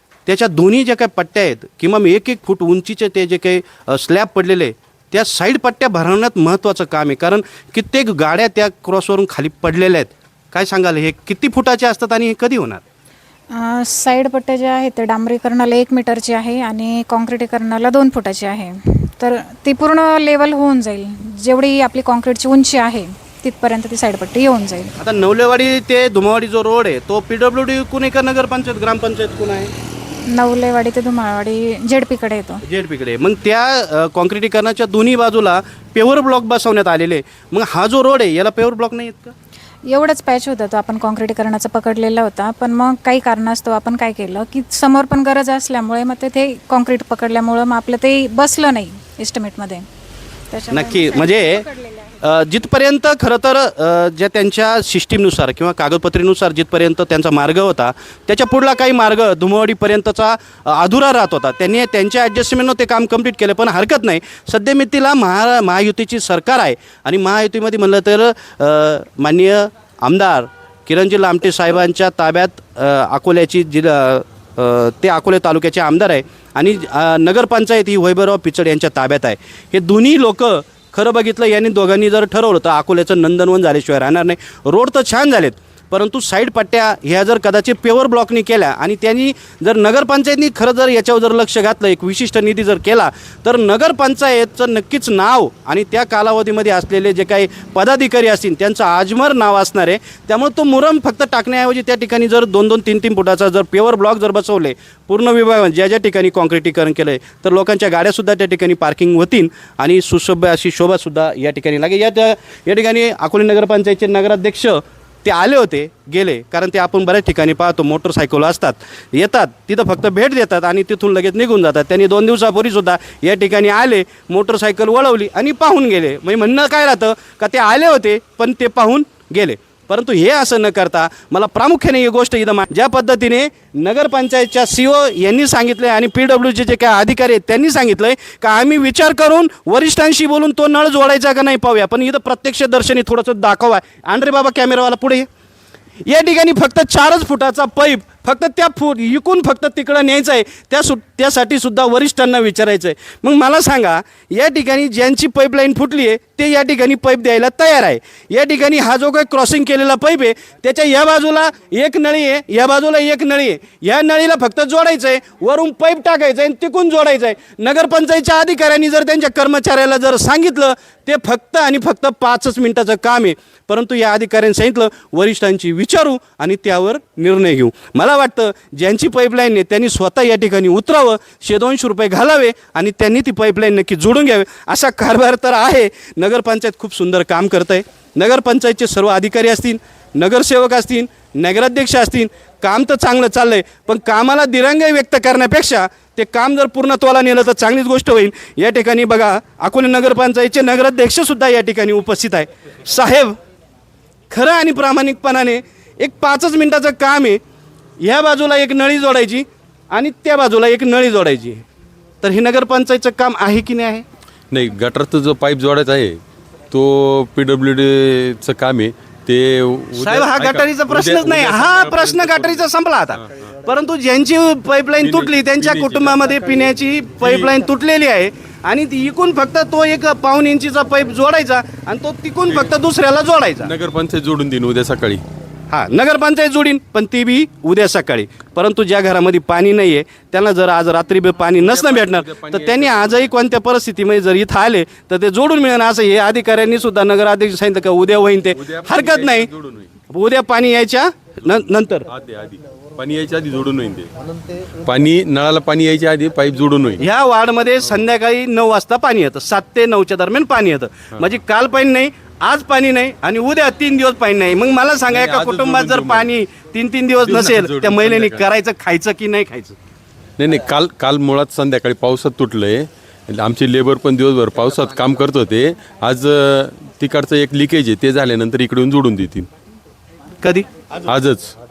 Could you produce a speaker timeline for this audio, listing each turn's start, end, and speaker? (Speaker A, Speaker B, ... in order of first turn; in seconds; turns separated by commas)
Speaker A: 0.2-12.8, Speaker B: 13.5-24.9, Speaker A: 25.0-29.7, Speaker B: 30.3-32.6, Speaker A: 32.6-39.3, Speaker B: 39.9-49.8, Speaker B: 50.5-51.9, Speaker A: 50.7-51.6, Speaker A: 52.2-145.3, Speaker A: 146.1-203.3, Speaker A: 204.3-207.4, Speaker A: 208.0-211.6, Speaker A: 212.2-214.0, Speaker C: 214.5-216.2, Speaker C: 216.7-222.7, Speaker A: 220.0-233.7, Speaker C: 225.0-226.4, Speaker C: 227.2-227.5, Speaker C: 232.5-232.8, Speaker C: 233.6-235.2, Speaker A: 235.7-249.5, Speaker C: 241.5-243.3, Speaker C: 248.6-249.9, Speaker A: 250.1-252.1, Speaker C: 252.1-254.1, Speaker C: 254.8-257.0, Speaker A: 257.0-269.8, Speaker C: 265.1-266.3, Speaker C: 267.2-268.4, Speaker C: 270.4-279.5, Speaker C: 281.1-281.5